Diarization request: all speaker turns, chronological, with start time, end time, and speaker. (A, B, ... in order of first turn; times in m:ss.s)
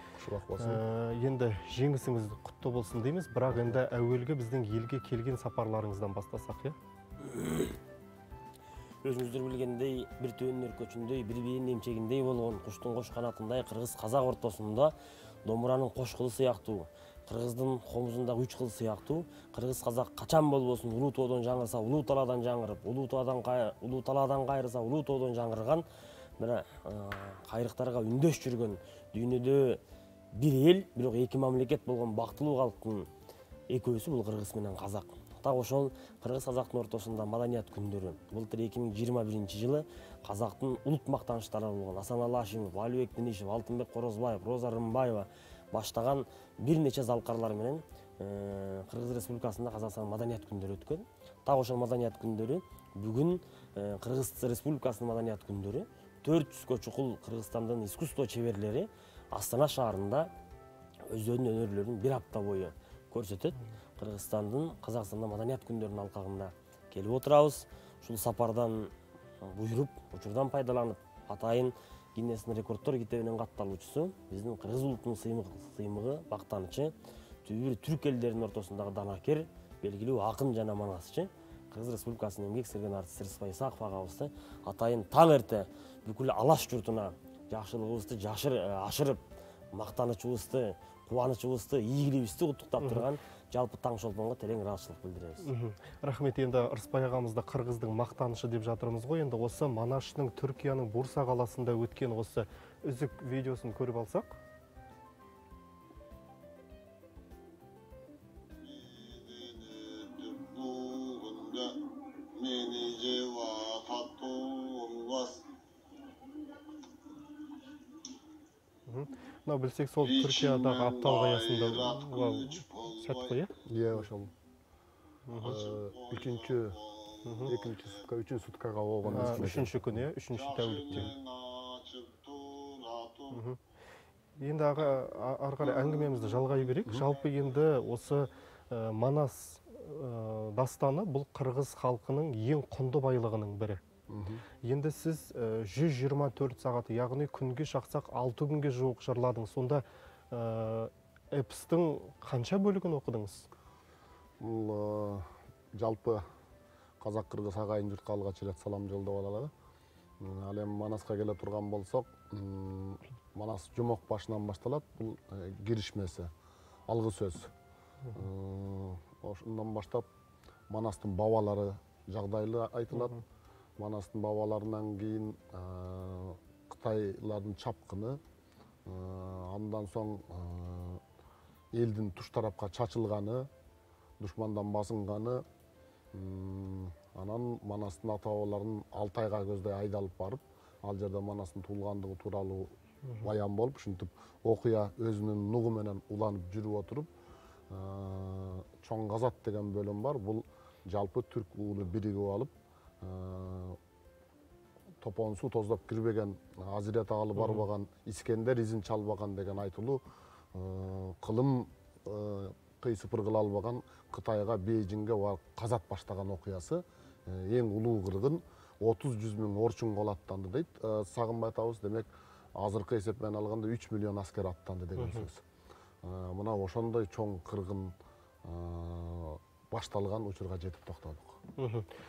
0:00.2-0:00.8 A
0:00.6-0:06.8 B
0:03.5-0:03.8 A
0:07.2-0:07.8 C
0:09.0-0:14.9 C
0:15.4-0:25.8 C
0:26.4-0:29.8 C
0:30.3-0:33.1 C
0:33.7-1:00.3 C
1:01.1-1:29.2 C
1:29.7-1:35.5 C
1:32.8-1:33.1 B
1:35.4-1:44.3 B
1:48.6-1:55.4 A
1:58.8-2:03.5 B
2:03.6-2:04.3 A
2:05.3-2:05.6 B
2:05.4-2:10.0 A
2:07.2-2:07.5 B
2:09.0-2:11.1 B
2:10.9-2:13.1 A
2:13.3-2:13.6 B
2:14.4-2:23.8 B
2:16.8-2:17.1 A
2:24.1-2:24.4 A
2:24.6-2:33.5 B
2:34.4-2:36.2 A
2:37.0-2:39.5 A
2:40.2-2:46.3 A
2:46.9-2:47.5 A
2:48.1-2:50.0 A
2:50.7-2:53.2 A
2:53.8-2:58.2 A
2:58.8-3:01.0 A
3:01.7-3:03.5 A
3:04.2-3:05.4 A
3:06.1-3:17.1 A
3:17.7-3:23.8 A
3:25.0-3:30.0 A
3:27.4-3:27.6 B
3:30.5-3:45.4 A
3:45.0-3:45.3 B
3:46.0-3:51.4 A
3:51.6-3:51.9 B